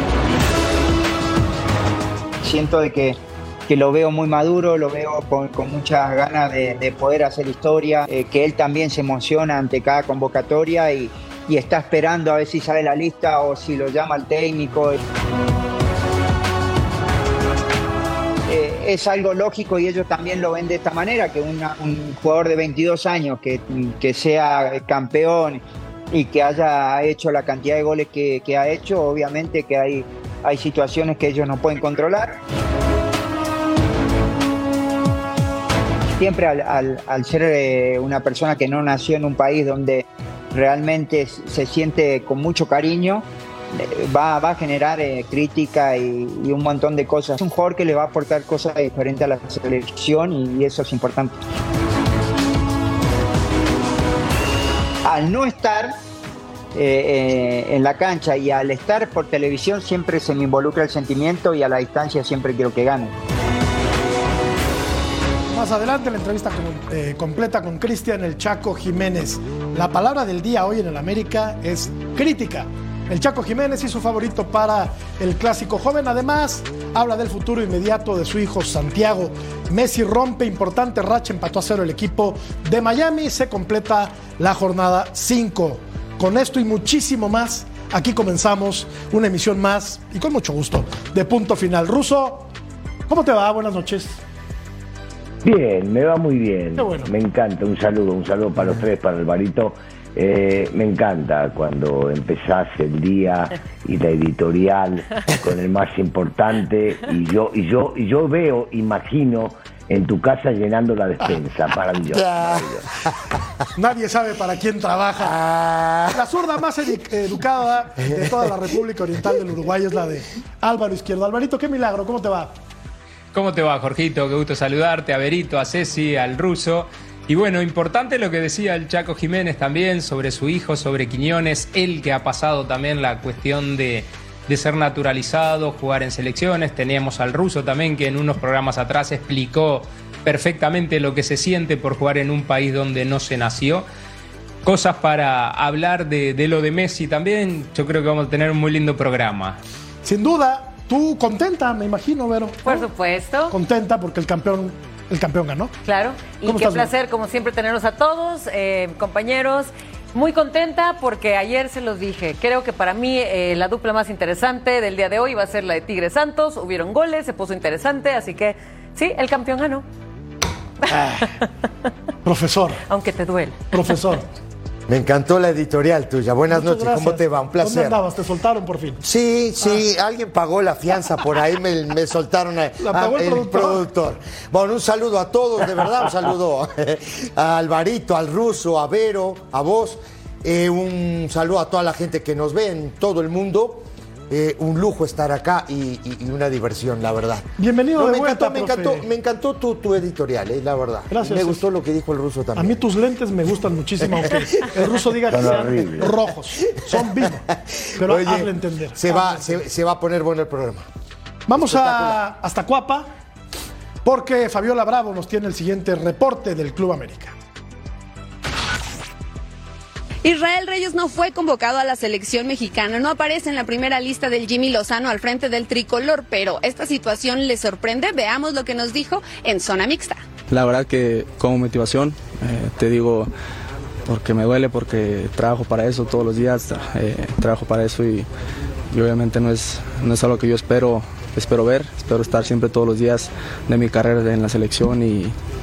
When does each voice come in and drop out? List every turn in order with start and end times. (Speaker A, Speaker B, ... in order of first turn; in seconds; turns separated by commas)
Speaker A: 2.4-3.2, Speaker A: 3.7-15.0, Speaker A: 18.5-32.4, Speaker A: 36.2-51.4, Speaker A: 55.0-55.9, Speaker A: 56.7-63.1, Speaker B: 65.5-92.5, Speaker B: 93.1-94.2, Speaker C: 95.4-112.9, Speaker B: 96.8-97.1, Speaker D: 112.1-112.8, Speaker B: 113.8-115.4, Speaker D: 115.2-116.3, Speaker B: 116.1-122.5, Speaker D: 118.0-118.4, Speaker E: 123.3-143.8, Speaker E: 144.6-149.6, Speaker B: 150.0-152.9, Speaker F: 152.7-153.6, Speaker B: 153.5-155.7, Speaker F: 155.8-169.8, Speaker B: 156.4-156.9, Speaker B: 170.9-171.3, Speaker B: 172.2-172.8, Speaker F: 172.9-173.7, Speaker B: 173.7-174.3, Speaker D: 174.9-178.0, Speaker B: 176.5-179.0, Speaker D: 179.0-202.8, Speaker B: 182.8-183.8, Speaker B: 197.6-199.0, Speaker B: 201.1-201.6, Speaker B: 202.6-207.4, Speaker D: 204.0-204.8, Speaker C: 205.3-206.2, Speaker D: 206.7-210.9, Speaker B: 208.0-209.5, Speaker B: 211.5-213.1, Speaker D: 211.6-212.2, Speaker B: 214.0-217.3, Speaker G: 220.2-230.2, Speaker H: 230.5-233.3, Speaker H: 234.1-238.3, Speaker H: 238.9-245.4